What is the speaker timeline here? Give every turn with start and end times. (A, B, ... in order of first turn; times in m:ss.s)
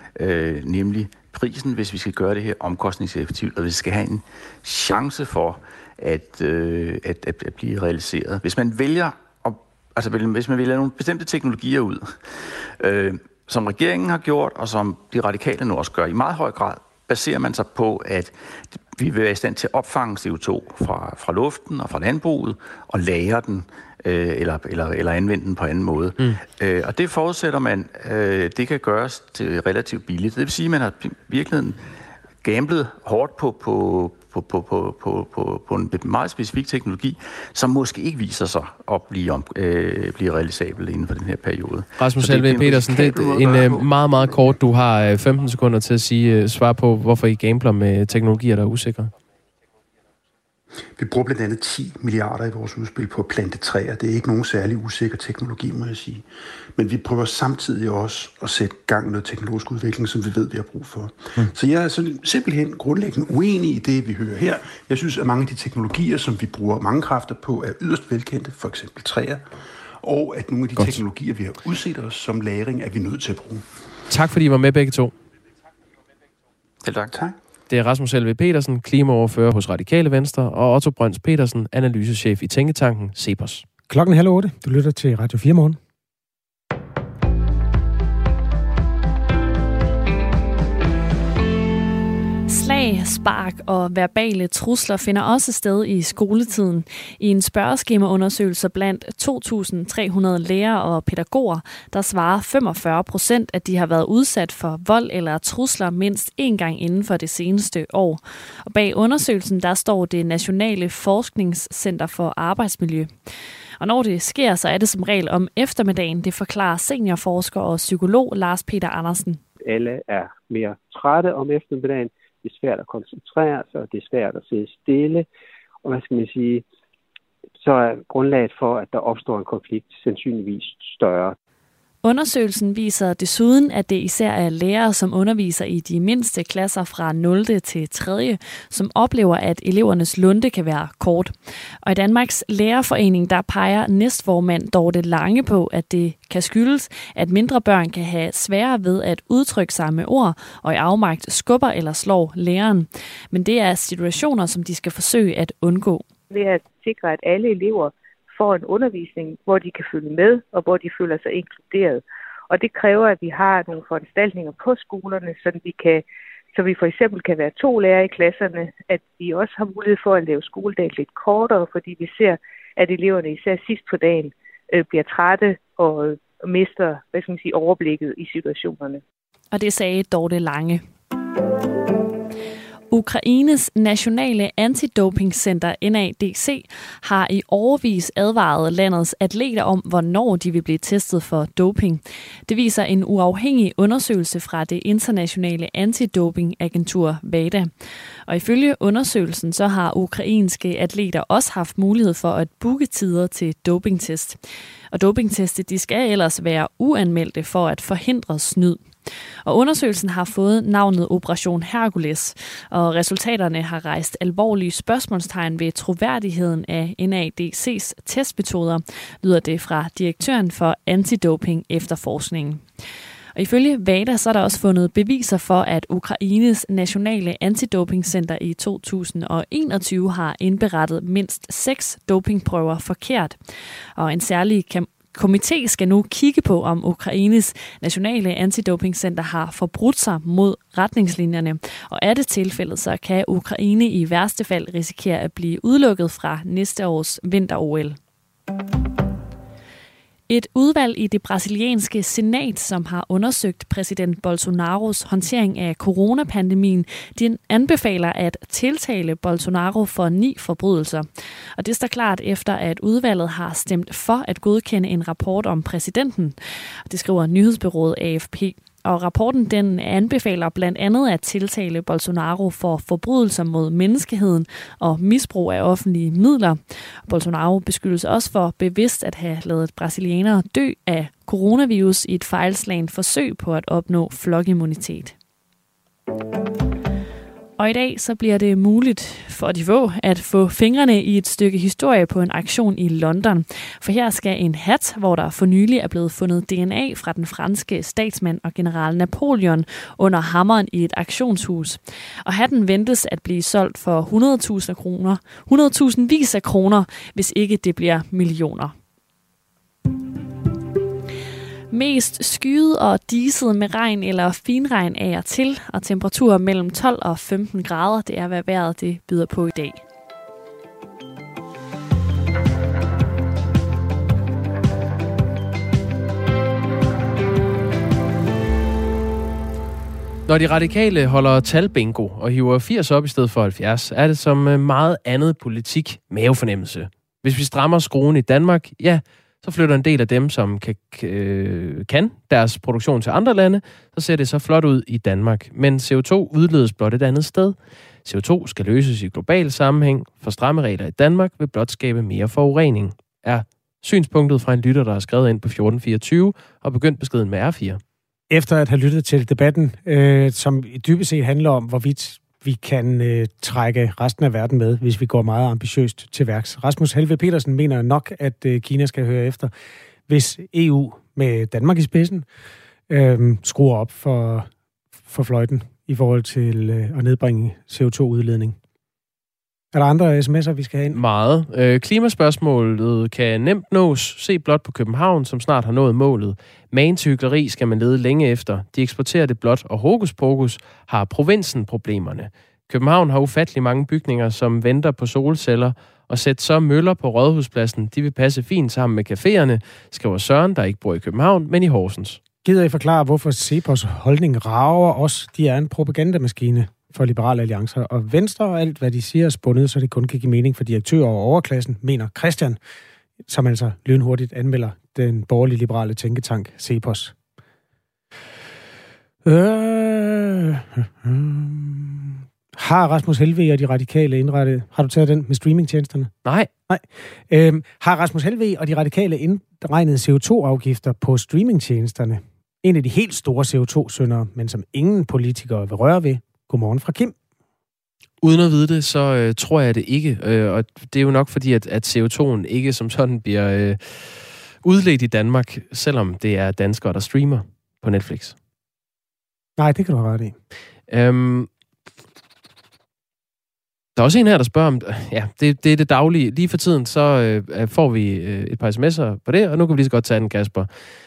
0:00.2-0:31.8 A
0:32.4-0:43.9 A
0:42.0-0:49.1 B
0:51.0-0:56.2 C
0:56.8-1:09.5 C
1:10.0-1:13.6 C
1:10.8-1:11.0 B
1:14.1-1:15.2 B
1:16.8-1:17.2 A
1:17.7-1:23.6 B
1:23.9-1:25.8 D
1:32.5-1:53.1 E
1:53.8-1:59.4 E
1:59.7-2:05.3 F
2:05.8-2:06.6 F
2:07.6-2:11.4 F
2:12.0-2:36.1 E
2:36.3-2:59.0 G
2:59.5-3:00.8 E
3:02.9-3:17.7 E
3:18.3-3:24.4 E
3:24.9-3:28.9 E
3:29.5-3:42.7 E
3:43.4-3:53.4 E
3:54.0-4:08.0 E
4:10.3-4:26.4 E
4:26.9-4:45.2 E
4:47.6-5:08.7 E
5:11.7-5:19.8 E
5:30.3-5:57.8 B
5:58.3-6:09.5 D
6:10.1-6:12.3 D
6:12.9-6:14.5 D
6:15.1-6:18.6 D
6:19.7-6:21.0 D
6:20.9-6:42.2 B
6:42.4-6:52.6 D
6:53.3-6:57.2 D
6:59.2-7:06.1 D
7:06.2-7:06.5 B
7:06.7-7:17.2 D
7:18.2-7:28.4 B
7:29.6-7:30.4 D
7:30.9-7:31.5 B
7:34.0-7:40.7 B